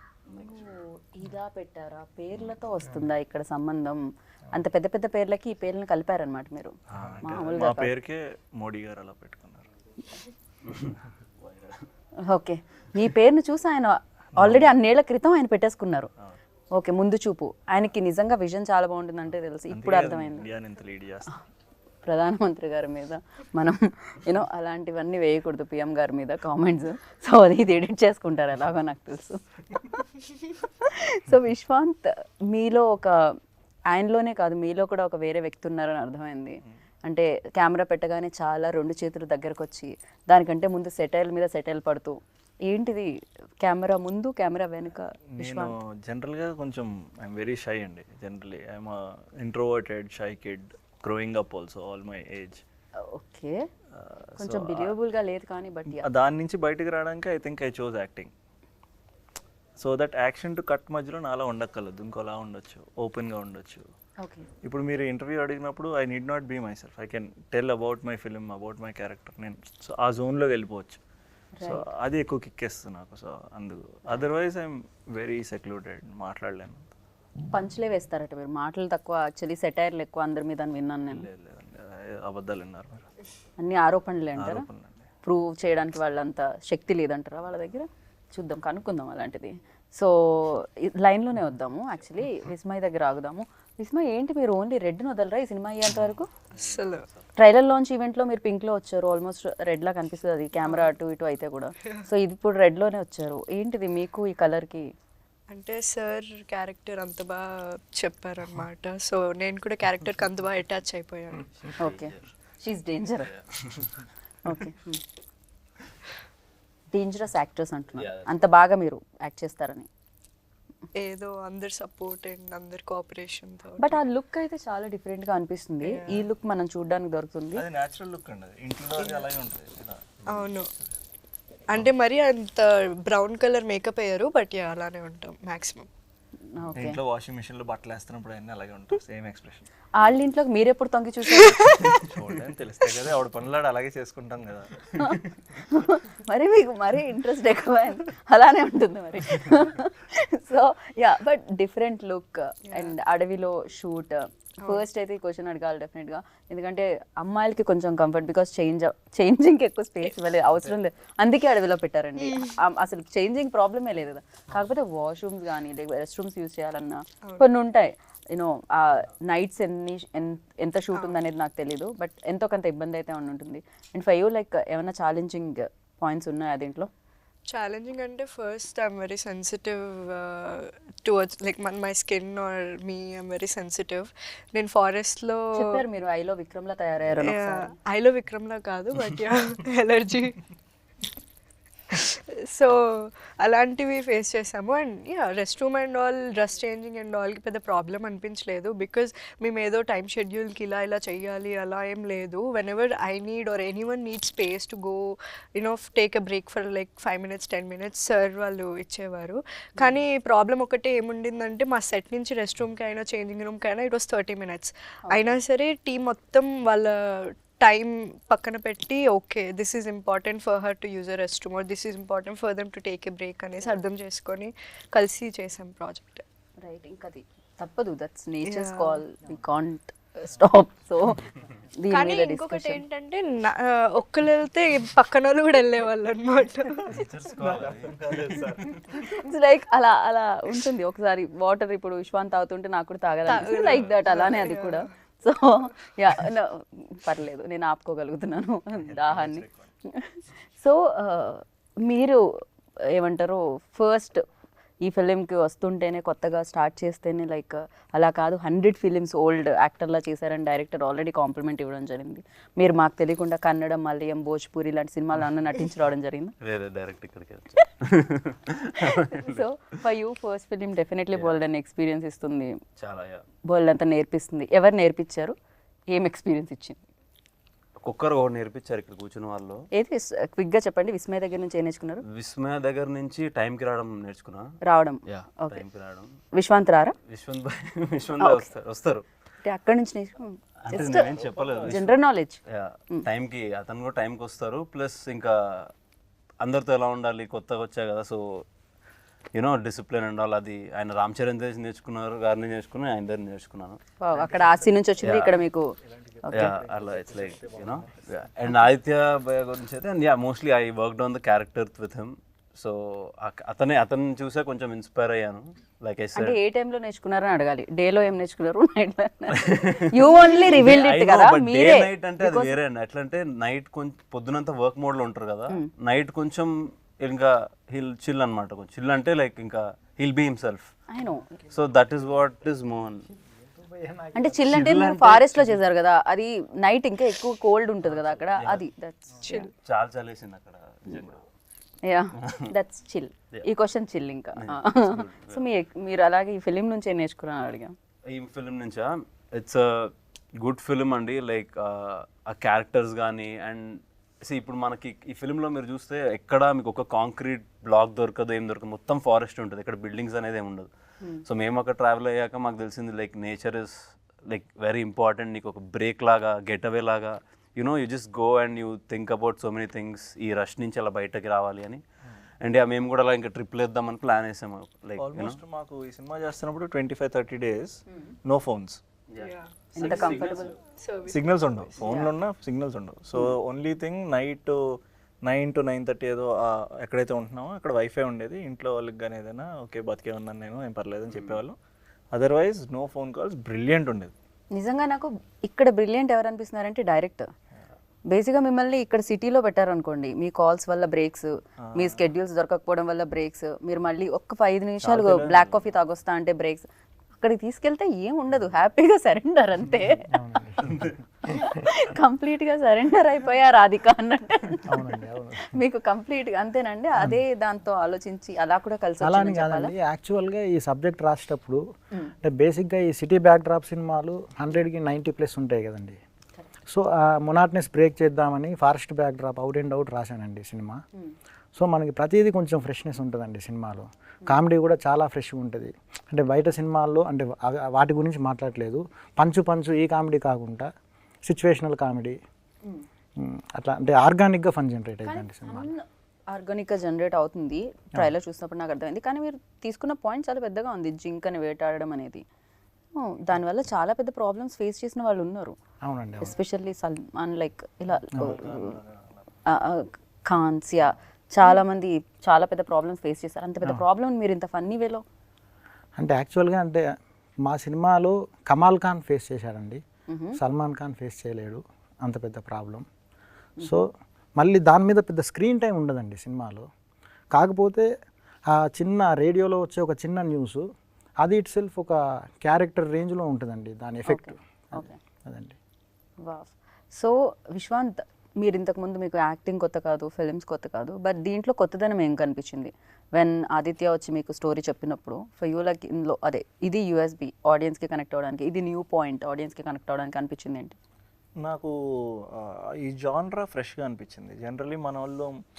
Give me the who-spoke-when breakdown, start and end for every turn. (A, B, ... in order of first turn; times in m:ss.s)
0:00.3-0:07.9 A
0:06.9-0:09.6 B
0:10.6-0:11.9 C
0:12.2-0:16.1 A
0:14.4-0:14.7 B
0:16.7-0:20.5 A
0:19.7-0:21.3 B
0:22.0-0:33.4 A
0:33.9-0:45.8 A
0:45.3-0:52.6 B
0:53.0-0:53.6 A
0:53.9-0:54.9 B
0:54.4-0:56.1 A
0:55.9-0:58.3 B
0:59.8-1:03.9 B
1:04.2-1:04.5 A
1:04.6-1:11.0 B
1:11.6-1:11.8 A
1:11.6-1:16.9 B
1:17.5-1:21.3 A
1:21.1-1:23.1 B
1:23.6-1:24.7 A
1:24.4-1:25.0 B
1:25.2-1:36.3 A
1:36.5-1:37.3 C
1:36.5-1:37.1 D
1:37.4-1:44.9 A
1:40.6-1:40.9 D
1:45.5-1:51.5 D
1:51.6-1:52.3 C
1:51.8-1:53.3 A
1:53.2-1:54.0 C
1:54.4-1:55.0 A
1:56.9-1:59.9 A
1:58.0-1:58.4 C
2:00.9-2:04.0 D
2:03.8-2:07.6 A
2:05.8-2:06.3 D
2:07.5-2:10.9 B
2:10.3-2:10.7 D
2:11.7-2:15.9 D
2:16.5-2:17.0 A
2:16.7-2:19.7 B
2:19.9-2:22.0 A
2:21.4-2:21.9 D
2:21.8-2:25.2 B
2:25.0-2:56.9 A
2:32.7-2:32.9 D
2:42.2-2:42.6 D
2:57.5-3:05.8 D
3:05.5-3:07.8 A
3:07.2-3:10.4 D
3:11.9-3:46.2 D
3:35.1-3:35.4 A
3:46.6-3:52.8 A
3:48.4-3:49.0 D
3:51.9-3:57.0 D
3:56.8-3:58.8 C
3:57.4-3:58.8 B
3:58.9-4:14.2 A
4:03.3-4:04.9 D
4:08.7-4:09.7 B
4:14.8-4:26.3 A
4:26.4-4:29.4 C
4:28.7-4:32.5 A
4:32.8-4:33.2 C
4:33.5-4:35.3 A
4:35.9-4:36.8 A
4:37.8-4:39.6 C
4:39.7-4:42.0 A
4:42.1-4:44.5 C
4:44.6-4:45.6 A
4:45.1-4:46.2 C
4:46.3-4:47.0 A
4:47.0-4:49.0 C
4:48.2-4:48.5 A
4:49.4-4:51.1 A
4:50.6-4:51.9 C
4:51.0-4:51.9 B
4:51.6-4:53.1 A
4:52.5-4:55.7 C
4:56.4-4:58.4 C
4:59.3-5:03.8 C
5:04.0-5:05.7 A
5:04.3-5:04.6 B
5:05.0-5:05.4 C
5:05.9-5:08.0 B
5:06.2-5:06.5 A
5:06.3-5:16.4 C
5:16.1-5:22.5 A
5:19.3-5:30.7 C
5:30.9-5:31.4 A
5:31.5-5:33.1 C
5:33.3-5:34.8 E
5:34.1-5:39.5 A
5:34.4-5:35.6 C
5:38.0-5:38.3 B
5:39.2-5:39.5 D
5:39.6-5:41.2 C
5:41.8-5:47.7 A
5:42.2-5:42.5 C
5:44.4-5:45.4 C
5:48.1-6:11.8 C
6:12.4-6:15.4 C
6:15.0-6:18.8 B
6:17.9-6:18.1 A
6:19.1-6:20.6 C
6:19.2-6:19.5 D
6:19.7-6:20.5 A
6:19.8-6:20.3 B
6:20.7-6:22.0 D
6:21.1-6:31.6 B
6:21.8-6:22.1 A
6:31.1-6:31.4 C
6:32.1-6:34.1 B
6:34.5-6:37.3 A
6:38.1-6:46.6 A
6:41.6-6:42.0 B
6:44.8-6:45.7 B
6:47.2-6:50.1 A
6:50.1-6:50.9 E
6:51.2-6:54.8 A
6:54.7-6:55.6 E
6:55.4-6:59.7 A
6:59.0-7:01.6 E
7:02.2-7:06.0 E
7:06.7-7:10.8 E
7:11.6-7:20.7 E
7:21.2-7:22.2 E
7:23.2-7:25.7 E
7:25.0-7:32.2 A
7:32.9-7:35.6 A
7:35.8-7:36.3 E
7:36.2-7:38.8 A
7:38.1-7:39.2 B
7:38.1-7:38.4 E
7:39.4-7:45.0 A
7:46.0-7:46.9 E
7:47.4-7:49.8 E
7:50.1-7:50.4 A
7:50.3-7:52.8 E
7:53.6-7:53.8 A
7:53.6-7:56.7 E
7:57.3-7:57.9 E
7:58.5-8:00.7 E
8:01.2-8:05.6 E
8:04.1-8:05.0 A
8:06.2-8:20.8 A
8:21.4-8:25.4 B